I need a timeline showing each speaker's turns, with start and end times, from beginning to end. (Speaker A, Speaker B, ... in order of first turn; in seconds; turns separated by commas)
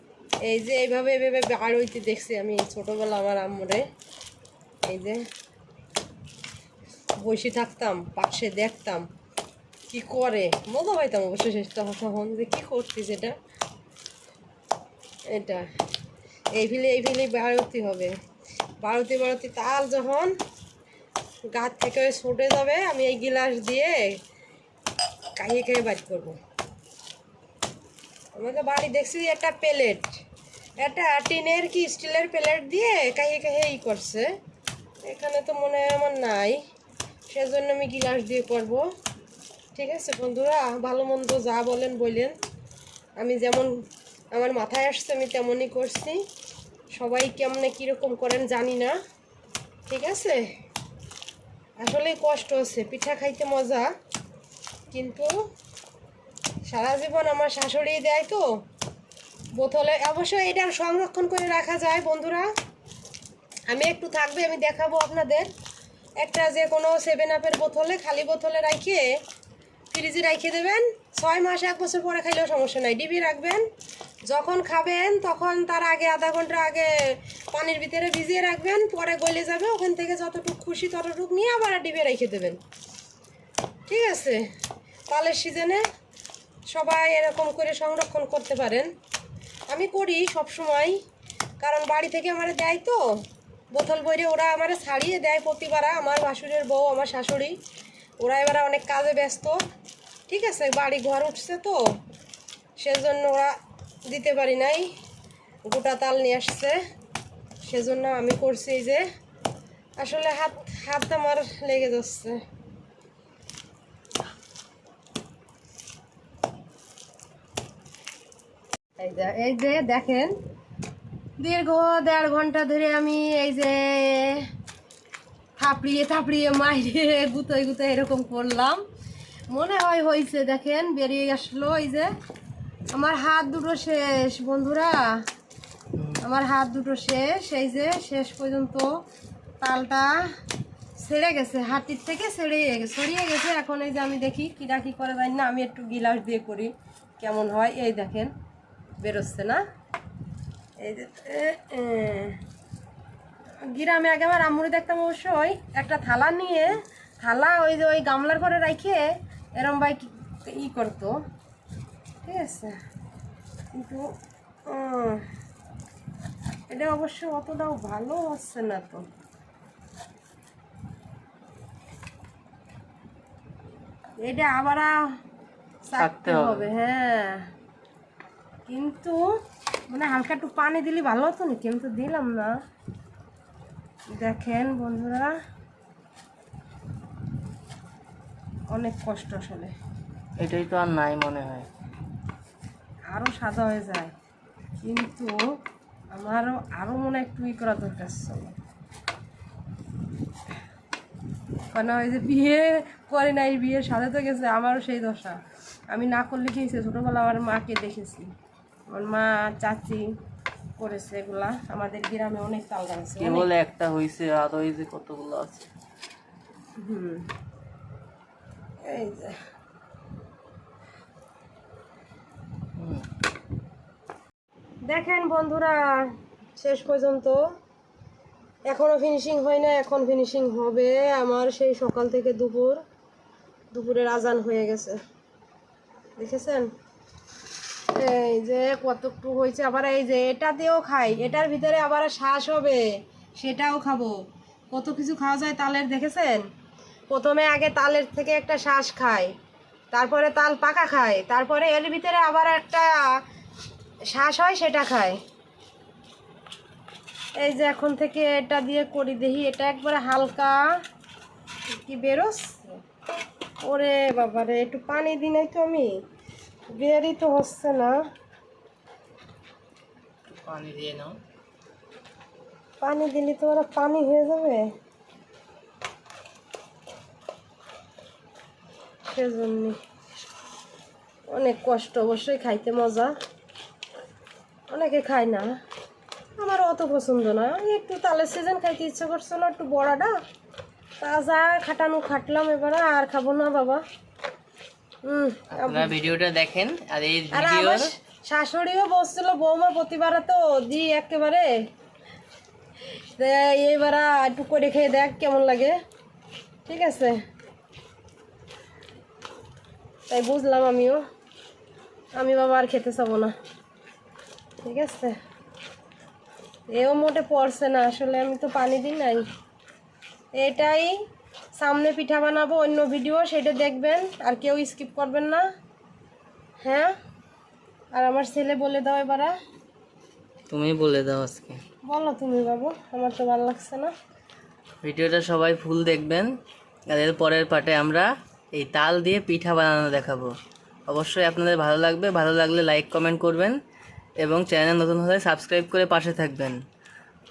Speaker A: 0.4-3.9, Speaker A: 4.9-5.2, Speaker A: 7.2-9.1, Speaker A: 9.9-13.3, Speaker A: 15.3-15.6, Speaker A: 16.5-18.1, Speaker A: 18.8-20.3, Speaker A: 21.5-24.2, Speaker A: 25.4-26.4, Speaker A: 28.3-30.2, Speaker A: 30.8-34.3, Speaker A: 35.0-36.6, Speaker A: 37.3-38.9, Speaker A: 39.8-42.3, Speaker A: 43.2-46.2, Speaker A: 46.9-49.0, Speaker A: 49.9-50.5, Speaker A: 51.8-53.9, Speaker A: 54.9-55.4, Speaker A: 56.7-58.5, Speaker A: 59.5-62.5, Speaker A: 63.7-65.5, Speaker A: 66.2-69.0, Speaker A: 69.9-73.6, Speaker A: 74.3-82.6, Speaker A: 83.9-84.5, Speaker A: 85.1-85.8, Speaker A: 86.7-88.9, Speaker A: 89.7-91.0, Speaker A: 91.6-93.2, Speaker A: 93.7-97.6, Speaker A: 98.2-99.6, Speaker A: 100.3-101.8, Speaker A: 102.8-103.5, Speaker A: 104.1-104.9, Speaker A: 105.6-106.8, Speaker A: 107.6-109.0, Speaker A: 110.0-112.4, Speaker A: 119.0-120.3, Speaker A: 121.4-124.5, Speaker A: 125.6-128.8, Speaker A: 129.5-132.1, Speaker A: 132.9-135.2, Speaker B: 135.9-136.2, Speaker A: 136.2-138.9, Speaker A: 139.6-140.2, Speaker A: 141.0-148.3, Speaker A: 149.0-149.6, Speaker A: 150.8-152.4, Speaker A: 153.7-161.2, Speaker A: 162.2-162.8, Speaker A: 163.7-164.0, Speaker A: 164.7-165.2, Speaker A: 166.7-169.1, Speaker A: 174.2-174.9, Speaker A: 175.8-177.4, Speaker B: 176.0-176.7, Speaker A: 178.7-179.2, Speaker A: 179.9-182.5, Speaker A: 184.1-185.3, Speaker A: 188.7-189.7, Speaker B: 190.4-191.7, Speaker A: 193.1-194.1, Speaker A: 194.8-195.4, Speaker A: 196.1-198.5, Speaker A: 201.7-208.3, Speaker A: 208.9-210.1, Speaker A: 210.8-213.5, Speaker B: 213.2-215.7, Speaker A: 216.8-217.3, Speaker A: 218.8-219.4, Speaker B: 222.8-223.1, Speaker A: 224.9-227.4, Speaker A: 228.7-232.8, Speaker A: 233.7-235.0, Speaker A: 236.2-236.7, Speaker A: 237.9-242.9, Speaker A: 243.4-244.2, Speaker A: 244.7-246.4, Speaker A: 247.1-249.3, Speaker A: 249.9-253.1, Speaker A: 254.1-255.2, Speaker A: 257.4-260.6, Speaker A: 261.8-262.8, Speaker A: 263.6-266.0, Speaker A: 266.7-268.0, Speaker B: 270.3-271.2, Speaker A: 272.8-274.7, Speaker A: 279.1-279.8, Speaker A: 281.3-283.1, Speaker A: 284.7-285.5, Speaker A: 286.4-290.1, Speaker A: 291.0-293.8, Speaker A: 295.0-295.9, Speaker B: 295.5-297.9, Speaker A: 297.3-301.5, Speaker A: 302.9-305.8, Speaker A: 306.6-307.2, Speaker A: 310.1-311.0, Speaker A: 312.1-313.3, Speaker A: 314.6-315.1, Speaker A: 316.7-319.2, Speaker A: 320.3-320.9, Speaker A: 321.6-325.4, Speaker A: 326.6-326.9, Speaker A: 327.9-329.3, Speaker B: 330.5-331.6, Speaker A: 331.9-333.9, Speaker B: 334.8-336.3, Speaker B: 336.9-340.3, Speaker B: 340.9-343.6, Speaker B: 344.2-346.6